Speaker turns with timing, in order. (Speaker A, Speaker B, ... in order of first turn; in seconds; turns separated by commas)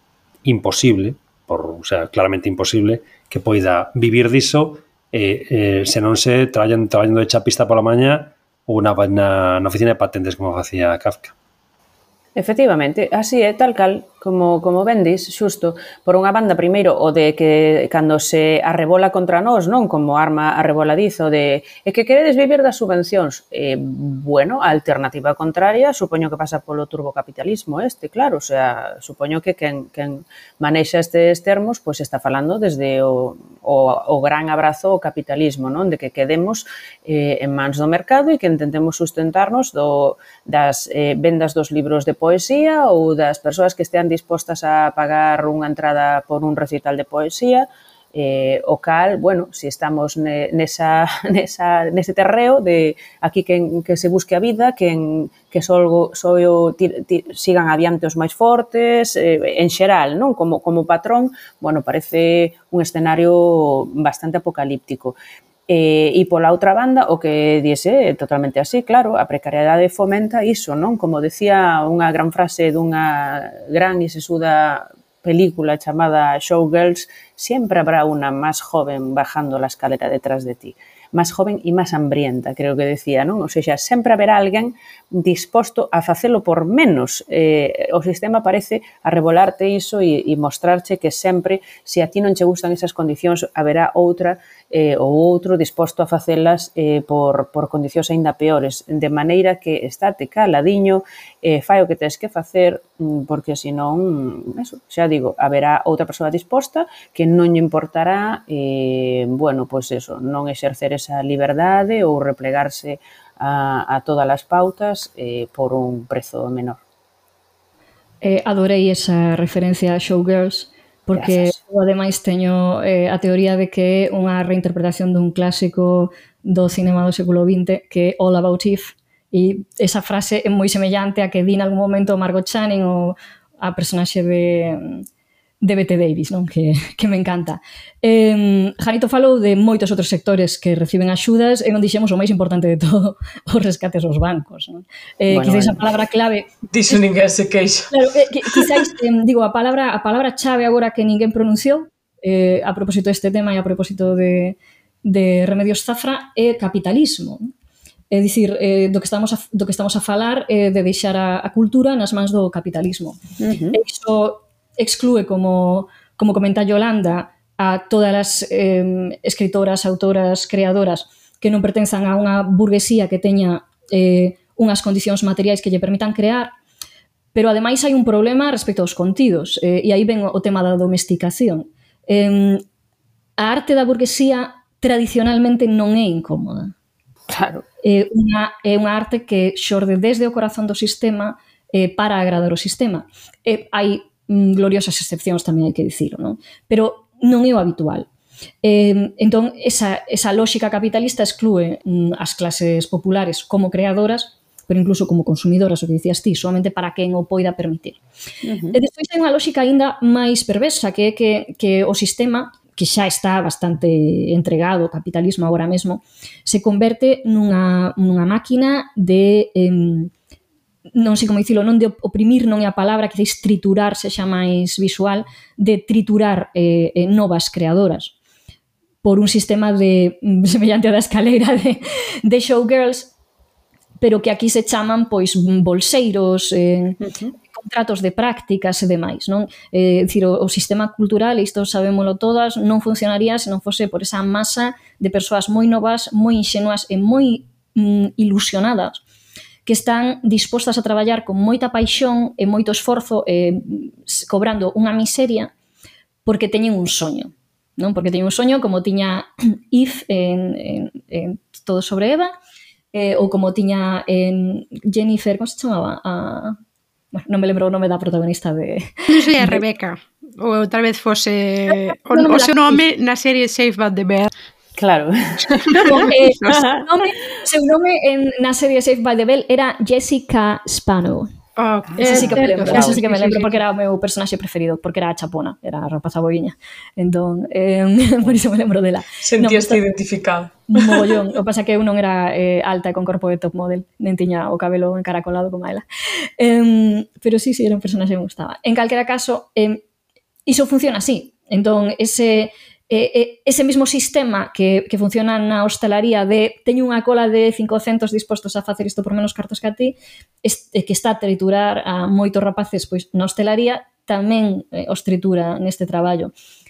Speaker A: 0.4-11.3, Speaker B: 12.3-65.2, Speaker B: 65.7-116.8, Speaker C: 118.2-135.0, Speaker B: 121.1-121.6, Speaker C: 135.6-147.0, Speaker B: 145.3-145.8, Speaker D: 146.7-147.9, Speaker C: 147.9-157.5, Speaker D: 148.5-148.8, Speaker C: 158.1-163.2, Speaker B: 163.4-163.8, Speaker C: 163.7-176.5, Speaker C: 177.3-182.6, Speaker C: 183.4-186.7, Speaker B: 187.3-187.6, Speaker C: 187.8-198.1, Speaker C: 198.6-208.0, Speaker B: 208.4-208.8, Speaker C: 208.7-220.1, Speaker C: 220.9-228.1, Speaker C: 229.0-233.1, Speaker C: 234.0-249.0, Speaker B: 237.0-237.3, Speaker C: 249.7-255.5, Speaker C: 256.2-262.3, Speaker C: 262.9-266.6, Speaker C: 267.1-269.6, Speaker E: 269.1-274.3, Speaker C: 271.7-272.9, Speaker B: 274.8-276.8, Speaker C: 275.8-281.3, Speaker E: 281.6-283.6, Speaker B: 281.9-283.0, Speaker C: 282.0-289.8, Speaker D: 289.2-291.1, Speaker C: 290.7-295.8, Speaker C: 296.4-299.8, Speaker C: 300.5-316.3